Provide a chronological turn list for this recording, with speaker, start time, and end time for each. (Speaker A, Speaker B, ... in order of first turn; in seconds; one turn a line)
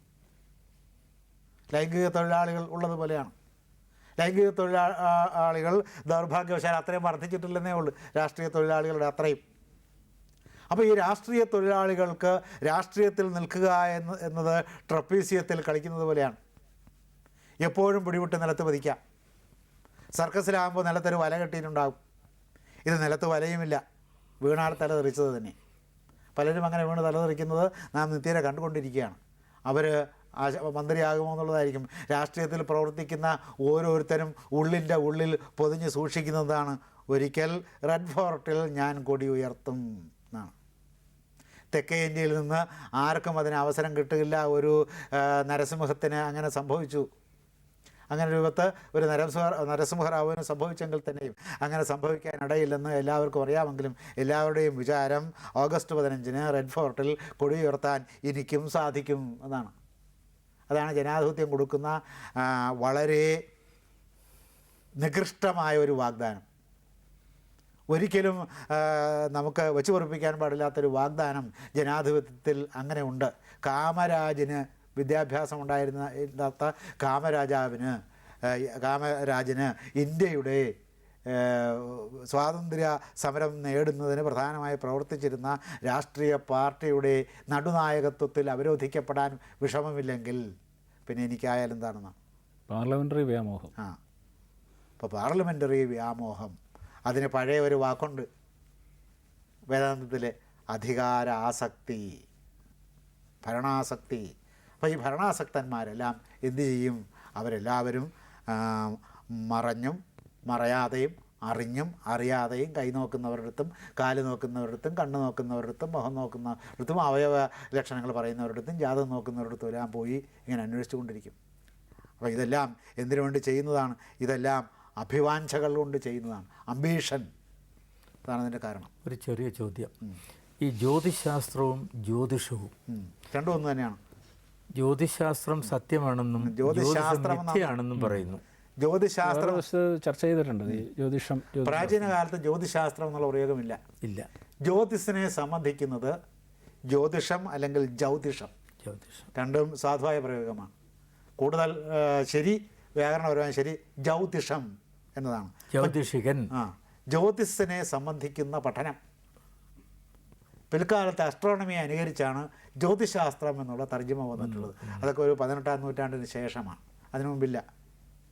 Speaker A: 1.7-3.3
Speaker A: 4.2-9.4
Speaker A: 10.7-16.4
Speaker A: 17.6-19.0
Speaker A: 20.1-22.0
Speaker A: 22.9-23.8
Speaker A: 24.4-25.6
Speaker A: 26.4-40.5
Speaker A: 41.7-47.1
Speaker A: 48.1-59.7
Speaker A: 60.7-63.4
Speaker A: 65.0-66.4
Speaker A: 67.9-80.7
Speaker A: 81.3-90.5
Speaker A: 91.0-92.1
Speaker B: 92.7-93.7
Speaker A: 95.0-96.5
Speaker A: 97.1-98.3
Speaker A: 99.7-102.2
Speaker A: 103.4-121.3
Speaker A: 122.2-127.3
Speaker A: 128.2-128.9
Speaker C: 129.0-129.9
Speaker C: 130.6-132.7
Speaker A: 132.9-134.0
Speaker C: 134.8-138.4
Speaker A: 136.4-137.7
Speaker A: 138.8-139.6
Speaker B: 139.2-142.1
Speaker A: 141.6-143.8
Speaker C: 144.0-144.3
Speaker A: 144.6-146.2
Speaker A: 146.9-148.5
Speaker C: 148.8-149.3
Speaker A: 149.3-150.7
Speaker A: 151.4-155.9
Speaker C: 155.7-156.5
Speaker A: 156.5-159.0
Speaker A: 160.7-167.6
Speaker C: 164.5-164.9